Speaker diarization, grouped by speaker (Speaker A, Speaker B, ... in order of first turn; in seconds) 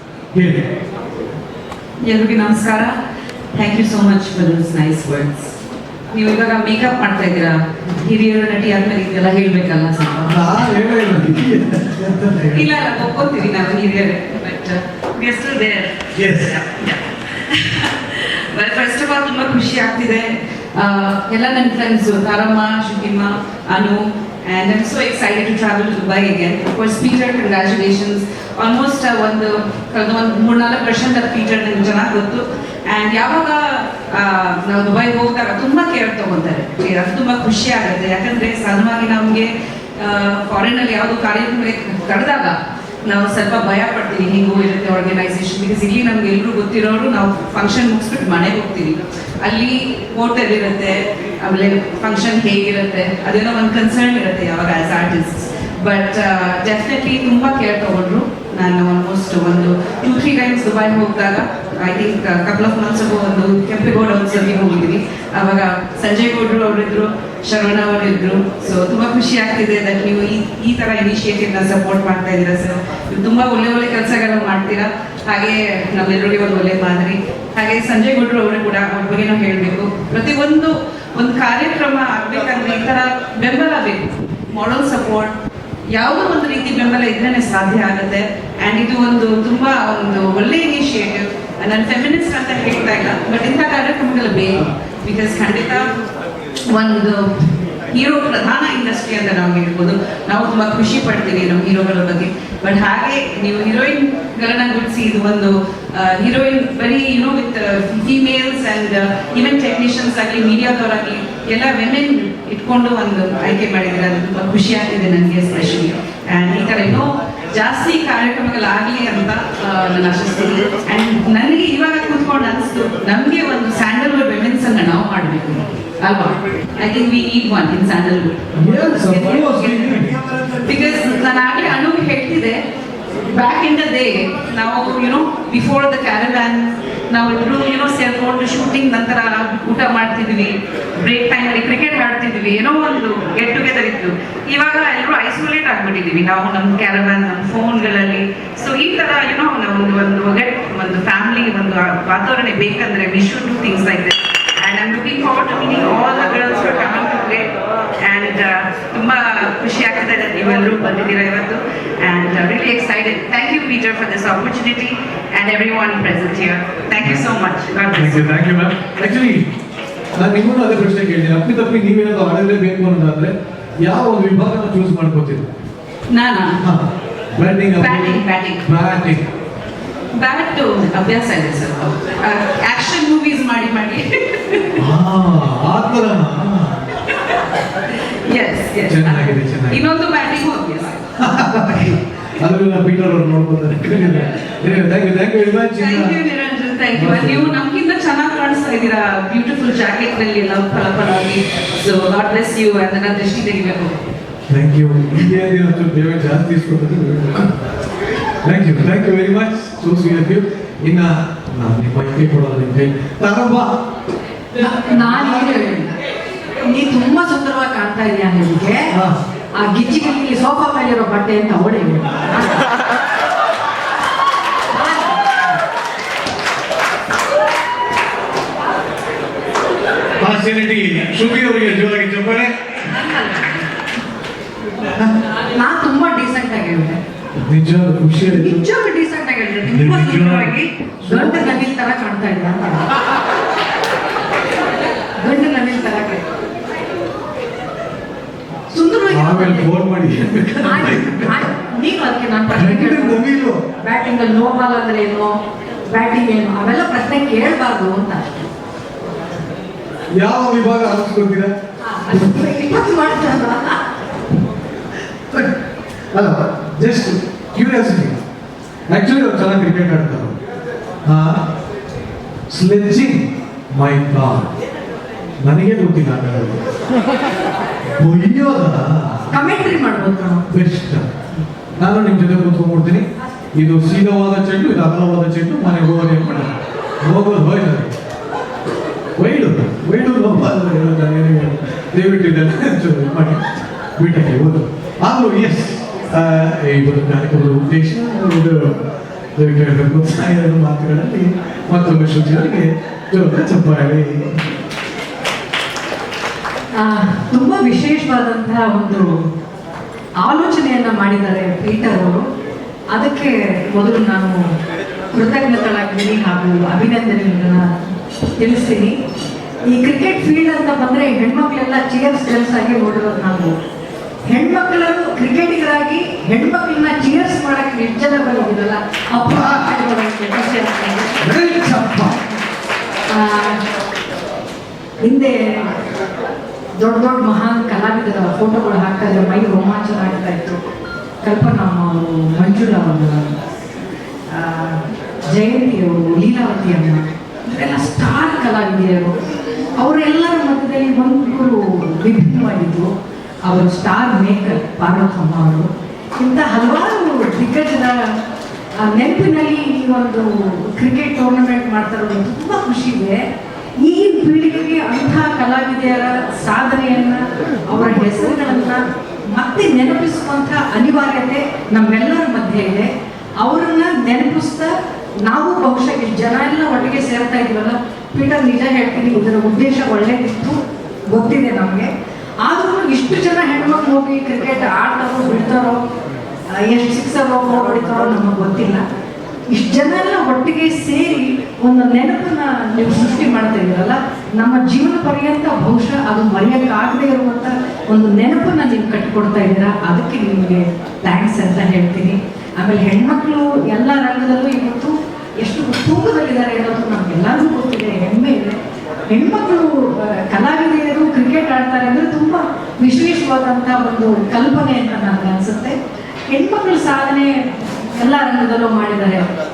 Speaker A: 0.3-0.7, 10.3-12.7, 16.1-16.6, 128.5-130.2, 167.0-167.3, 167.9-169.5, 170.2-175.5, 176.6-179.3, 184.8-186.8, 188.9-189.8, 191.2-196.2, 196.9-197.6, 204.5-207.6, 208.4-213.8, 214.9-215.6, 218.9-219.2, 230.2-232.5, 237.4-238.6, 239.7-241.6, 249.1-251.4, 252.5-253.6, 260.2-261.5, 266.1-268.2, 268.9-270.4, 271.1-271.4, 272.5-274.5, 275.4-276.6, 278.0-279.3, 280.5-281.1, 281.8-287.9, 289.2-293.4, 294.0-298.8, 299.4-304.4, 329.3-329.7, 331.2-332.2
Speaker B: 2.0-3.0, 3.5-5.6, 6.1-10.7, 12.5-85.3, 85.9-95.9, 96.7-132.6, 133.3-168.3, 176.1-176.6, 177.8-178.6, 180.2-184.8, 188.2-191.0, 195.8-204.0
Speaker C: 214.6-215.9, 216.6-218.9, 219.6-222.7, 224.7-225.4, 232.9-233.6, 235.5-237.0, 238.3-242.9, 245.2-246.2, 248.7-249.7, 250.7-253.2, 253.8-255.4, 255.9-258.4, 261.8-263.8, 279.3-280.5, 306.8-309.2, 310.2-312.2, 312.9-314.4, 315.1-319.0, 319.7-323.6, 324.3-331.2, 333.1-333.6, 335.0-335.8, 336.8-340.6, 341.2-343.4, 344.3-349.2, 349.8-352.9, 353.4-358.1, 358.8-363.2, 363.8-374.8, 375.3-380.6, 381.1-381.9, 382.4-385.8, 386.5-388.8, 389.5-408.6, 409.1-415.8, 416.3-419.3